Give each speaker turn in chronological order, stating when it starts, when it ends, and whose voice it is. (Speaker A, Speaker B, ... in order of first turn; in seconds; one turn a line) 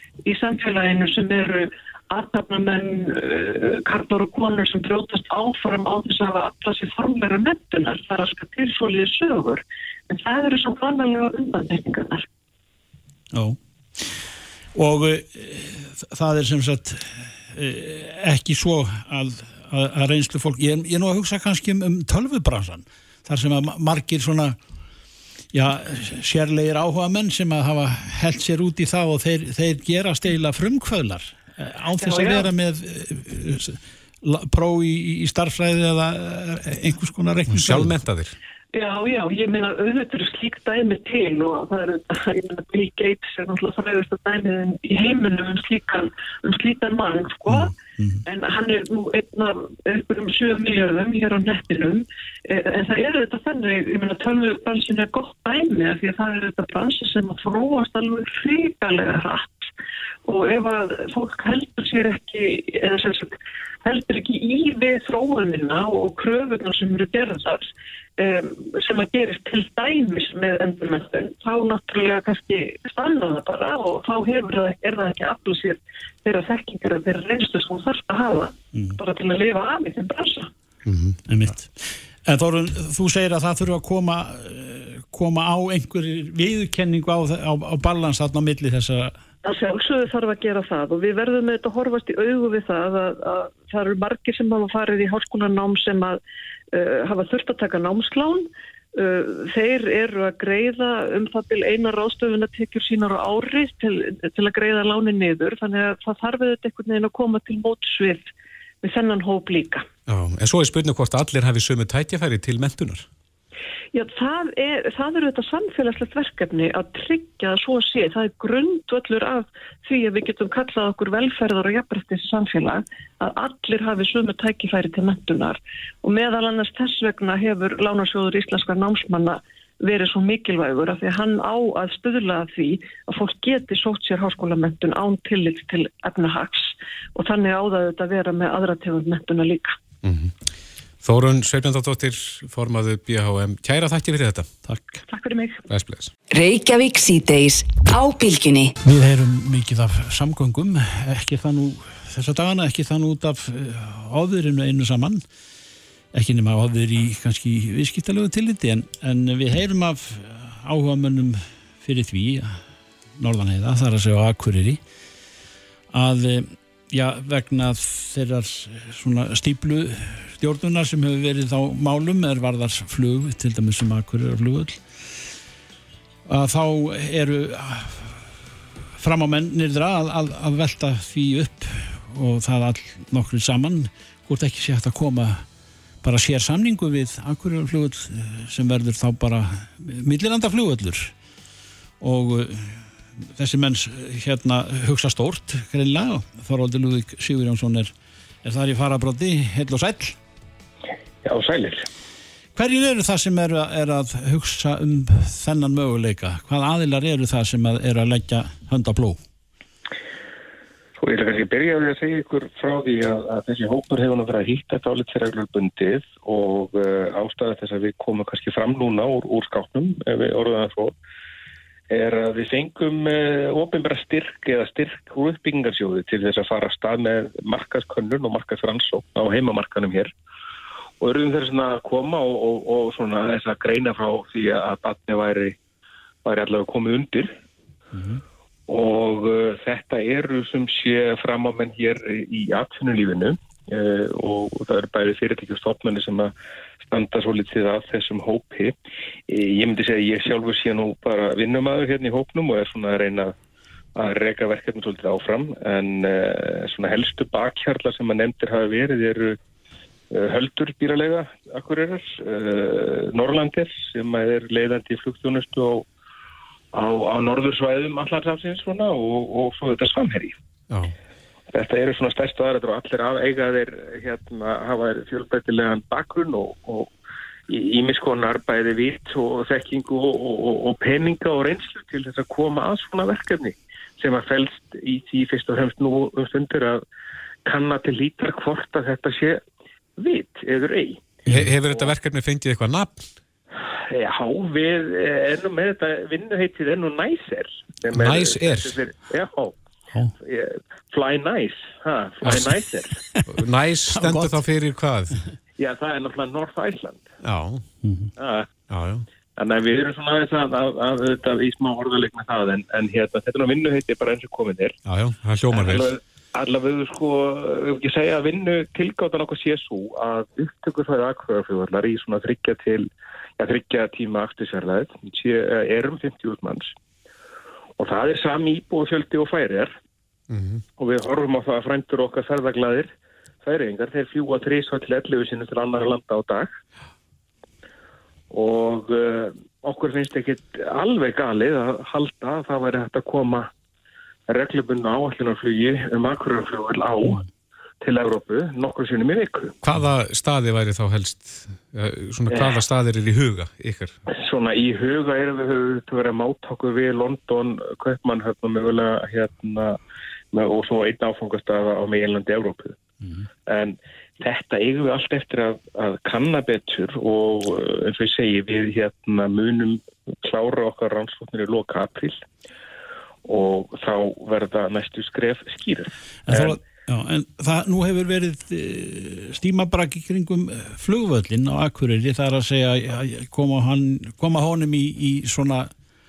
Speaker A: 0.2-12.2
Speaker B: 13.3-14.2
Speaker B: 14.7-24.6
Speaker B: 25.5-37.9
Speaker A: 32.0-32.5
Speaker C: 37.5-38.4
Speaker A: 38.7-47.7
Speaker A: 48.2-59.7
Speaker A: 60.2-80.5
Speaker B: 78.7-79.0
Speaker C: 80.8-81.2
Speaker B: 81.3-89.1
Speaker A: 89.4-96.2
Speaker A: 96.7-108.3
Speaker A: 108.8-109.8
Speaker C: 110.1-113.0
Speaker A: 113.9-139.7
Speaker C: 140.0-140.3
Speaker C: 141.0-144.5
Speaker B: 144.7-145.0
Speaker A: 145.1-145.6
Speaker C: 145.7-146.1
Speaker D: 146.3-148.7
Speaker B: 148.8-155.2
Speaker B: 156.1-162.6
Speaker B: 163.2-164.8
Speaker B: 165.9-174.8
Speaker B: 176.2-178.2
Speaker B: 179.0-185.4
Speaker B: 186.0-191.1
Speaker B: 192.0-192.8
Speaker B: 193.3-197.9
Speaker B: 198.4-200.2
Speaker E: 201.2-201.9
Speaker B: 202.6-209.2
Speaker E: 211.0-220.9
Speaker E: 221.9-230.1
Speaker E: 231.0-235.6
Speaker E: 236.2-237.3
Speaker B: 237.9-238.2
Speaker E: 238.7-248.7
Speaker E: 249.3-253.3
Speaker E: 253.9-259.4
Speaker E: 260.1-265.9
Speaker E: 266.7-270.4
Speaker E: 271.5-276.9
Speaker E: 277.5-286.8
Speaker E: 287.4-289.4
Speaker E: 290.0-291.1
Speaker C: 291.3-293.1
Speaker E: 293.9-299.6
Speaker C: 297.9-298.8
Speaker E: 300.2-303.0
Speaker C: 303.3-305.2
Speaker B: 303.9-304.4
Speaker E: 305.6-307.1
Speaker C: 307.2-307.6
Speaker B: 307.8-308.1
Speaker E: 308.2-308.5
Speaker C: 308.7-309.0
Speaker E: 309.4-314.8
Speaker C: 314.9-315.9
Speaker E: 315.5-326.7
Speaker E: 327.8-329.7
Speaker C: 330.3-330.6
Speaker E: 330.8-332.9
Speaker E: 333.4-336.5
Speaker E: 338.3-343.5
Speaker E: 344.3-347.2
Speaker E: 347.8-349.6
Speaker C: 349.6-353.9
Speaker E: 352.3-352.6
Speaker E: 354.1-359.8
Speaker E: 360.3-362.8
Speaker E: 363.5-372.2
Speaker E: 373.2-376.6
Speaker B: 376.3-385.7